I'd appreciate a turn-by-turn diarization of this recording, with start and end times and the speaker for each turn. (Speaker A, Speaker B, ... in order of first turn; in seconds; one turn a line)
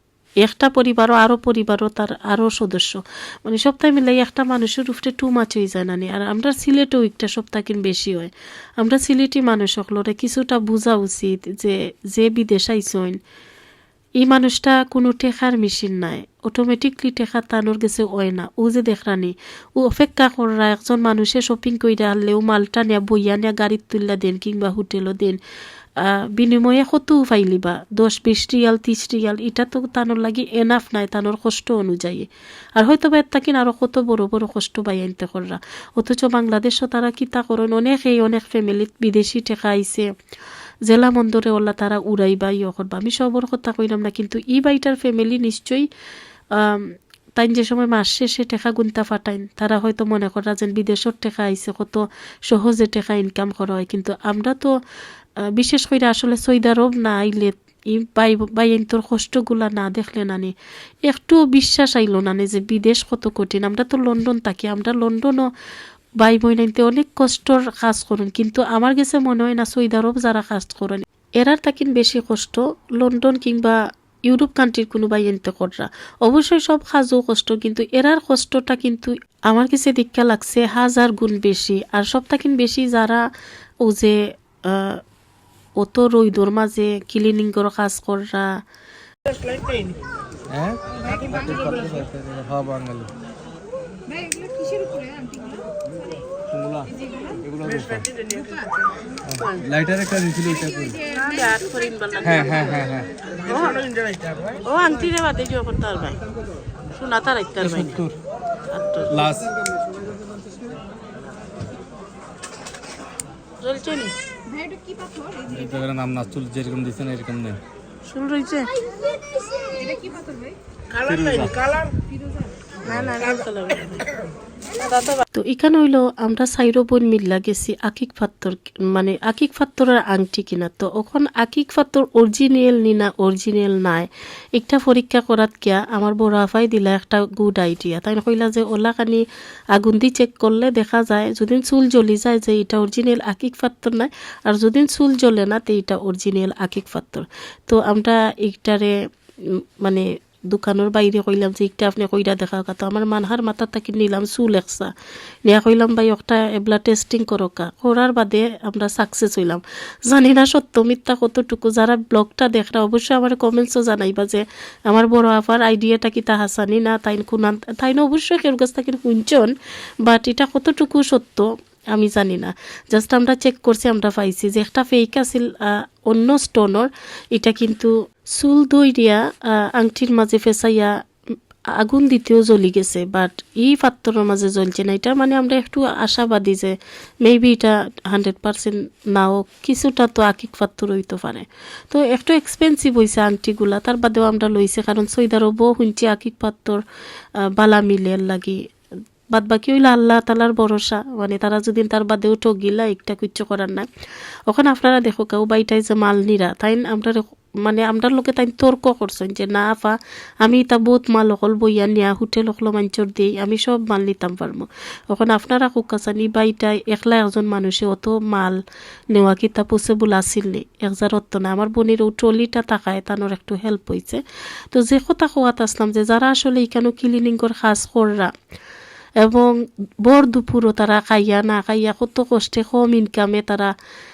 Speaker A: 0.4-13.2
Speaker A: 14.2-25.4
Speaker A: 26.0-40.1
Speaker A: 40.9-45.9
Speaker A: 46.5-54.8
Speaker A: 55.4-65.5
Speaker A: 66.2-83.3
Speaker A: 83.8-85.0
Speaker A: 85.8-88.5
Speaker B: 90.5-93.1
Speaker C: 94.4-95.5
Speaker B: 96.5-98.0
Speaker B: 99.2-101.1
Speaker C: 101.1-102.2
Speaker B: 102.2-103.1
Speaker C: 103.5-103.8
Speaker C: 104.6-105.6
Speaker A: 104.7-106.2
Speaker A: 107.0-107.6
Speaker C: 107.0-107.5
Speaker B: 107.6-108.2
Speaker A: 108.8-109.1
Speaker B: 109.1-109.5
Speaker A: 113.6-114.1
Speaker C: 113.7-114.0
Speaker C: 114.6-115.3
Speaker B: 115.4-117.6
Speaker A: 118.1-118.7
Speaker C: 119.7-120.3
Speaker B: 120.9-121.6
Speaker B: 122.9-123.1
Speaker A: 122.9-123.9
Speaker C: 123.2-123.5
Speaker A: 125.2-148.9
Speaker A: 149.8-154.9
Speaker A: 155.4-180.9
Speaker A: 181.7-196.8
Speaker A: 197.4-198.6
Speaker A: 199.3-203.9
Speaker A: 204.5-218.6
Speaker A: 219.1-228.3
Speaker A: 229.2-233.7